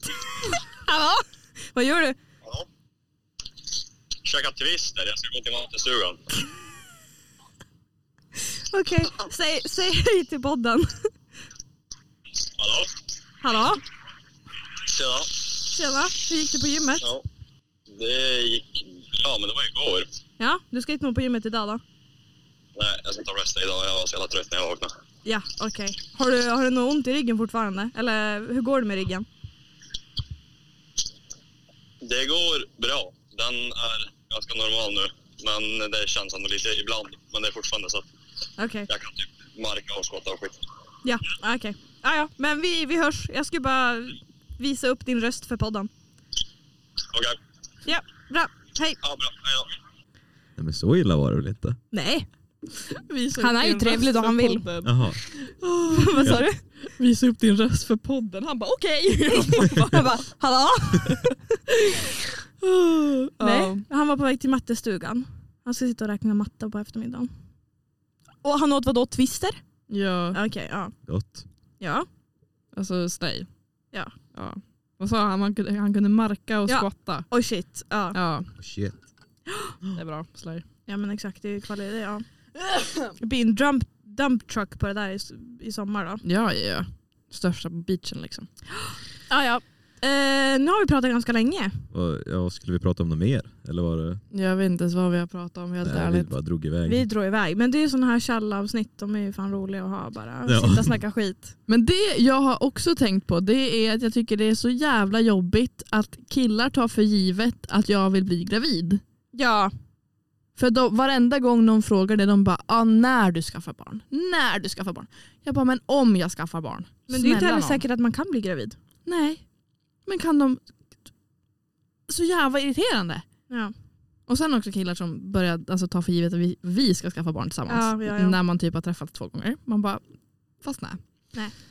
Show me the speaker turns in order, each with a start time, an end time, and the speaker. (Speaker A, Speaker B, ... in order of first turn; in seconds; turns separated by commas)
Speaker A: 0.4-2.2, Speaker B: 4.2-6.2, Speaker A: 8.5-11.1, Speaker B: 12.4-12.9, Speaker A: 13.4-13.8, Speaker B: 14.8-15.5, Speaker A: 15.7-17.0, Speaker B: 17.9-20.1, Speaker A: 20.4-21.8, Speaker B: 22.8-24.9, Speaker A: 25.2-29.3, Speaker B: 32.0-38.1, Speaker A: 38.6-38.9, Speaker B: 38.9-40.6, Speaker A: 41.0-45.9, Speaker B: 47.1-47.4, Speaker A: 47.9-49.0, Speaker B: 49.0-49.8, Speaker C: 50.6-51.8, Speaker A: 51.9-52.3, Speaker D: 52.9-60.0, Speaker A: 53.4-54.6, Speaker C: 54.8-55.2, Speaker A: 55.9-56.6, Speaker A: 59.3-61.4, Speaker D: 62.6-63.9, Speaker A: 63.4-67.3, Speaker A: 68.4-69.6, Speaker D: 69.9-70.4, Speaker A: 70.3-71.0, Speaker C: 71.1-71.4, Speaker A: 71.8-72.1, Speaker D: 72.8-73.5, Speaker D: 74.3-77.3, Speaker A: 76.7-78.2, Speaker D: 78.1-78.5, Speaker C: 78.6-79.0, Speaker A: 79.5-79.8, Speaker D: 80.0-80.7, Speaker A: 80.9-82.3, Speaker D: 82.7-83.1, Speaker A: 83.2-86.2, Speaker D: 86.2-88.5, Speaker A: 88.8-91.8, Speaker C: 91.9-94.2, Speaker D: 94.3-96.3, Speaker C: 95.8-97.1, Speaker A: 96.8-101.5, Speaker C: 100.5-101.0, Speaker D: 101.7-109.0, Speaker A: 109.3-109.7, Speaker D: 110.6-117.8, Speaker A: 117.1-118.8, Speaker D: 119.1-119.4, Speaker D: 120.1-120.7, Speaker D: 122.1-123.3, Speaker D: 124.3-130.1, Speaker A: 127.7-128.4, Speaker D: 130.6-131.0